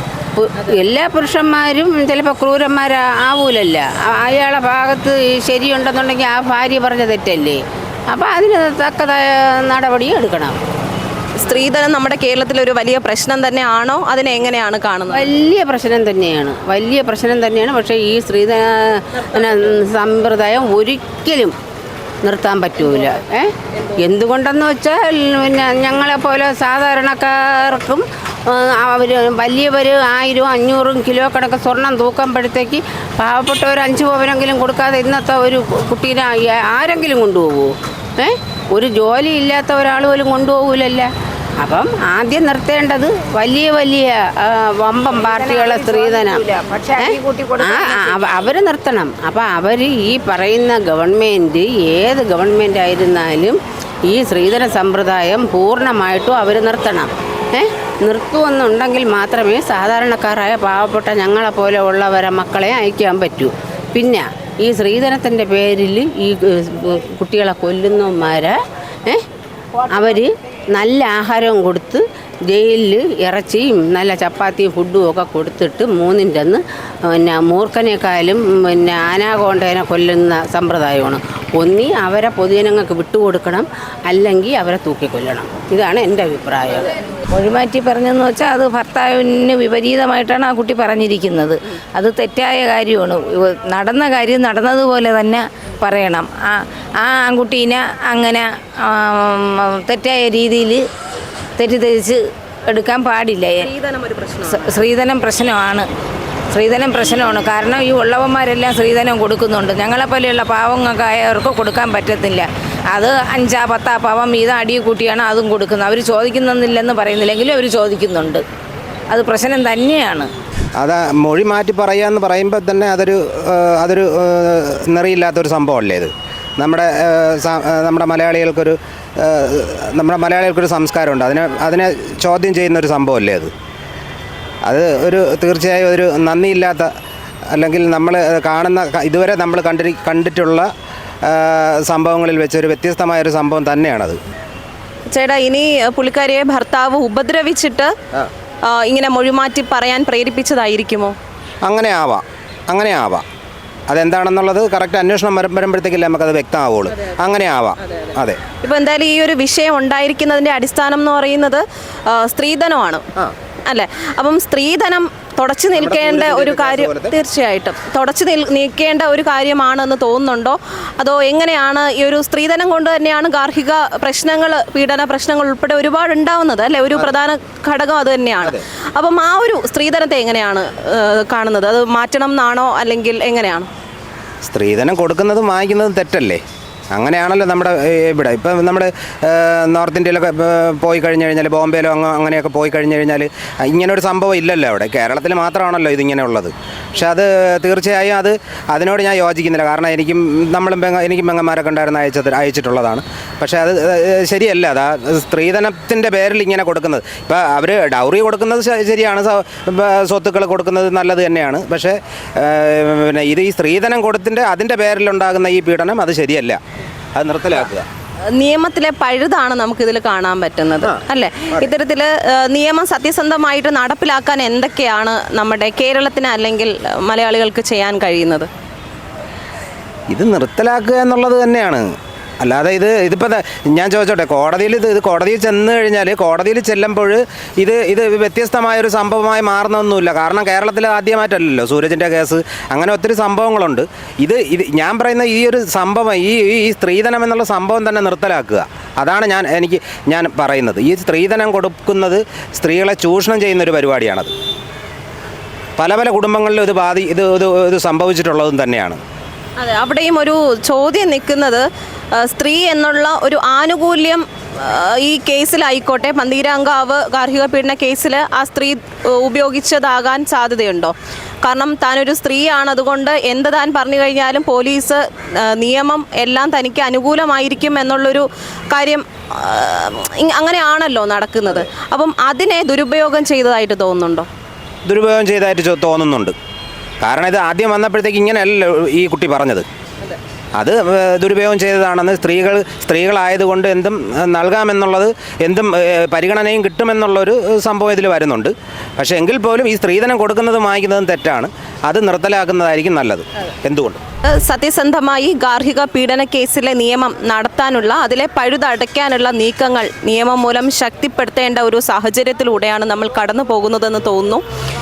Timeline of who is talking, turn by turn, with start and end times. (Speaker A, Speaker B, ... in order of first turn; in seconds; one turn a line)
Speaker A: 0.4-10.6
Speaker B: 11.4-15.3
Speaker A: 15.1-21.5
Speaker A: 22.2-41.1
Speaker A: 41.6-69.2
Speaker C: 45.1-48.3
Speaker A: 69.9-87.0
Speaker C: 87.3-100.8
Speaker C: 101.6-103.7
Speaker B: 103.6-104.8
Speaker C: 104.5-105.9
Speaker C: 106.5-118.4
Speaker C: 119.1-120.3
Speaker D: 120.8-133.5
Speaker D: 134.7-136.9
Speaker D: 137.5-140.7
Speaker D: 141.3-144.2
Speaker B: 145.1-147.9
Speaker B: 148.7-151.2
Speaker D: 151.7-153.2
Speaker D: 153.9-158.4
Speaker B: 158.6-163.0
Speaker B: 163.7-183.7
Speaker D: 165.8-167.1
Speaker D: 184.4-186.4
Speaker D: 186.9-216.6
Speaker D: 217.2-217.9
Speaker B: 218.4-228.5
Speaker D: 230.1-231.9
Speaker D: 232.4-254.3
Speaker D: 255.8-259.0
Speaker B: 259.6-261.6
Speaker B: 262.2-270.9
Speaker B: 271.4-275.0
Speaker B: 275.5-284.3
Speaker D: 284.9-286.4
Speaker D: 287.0-289.6
Speaker D: 290.6-304.0
Speaker B: 304.4-314.4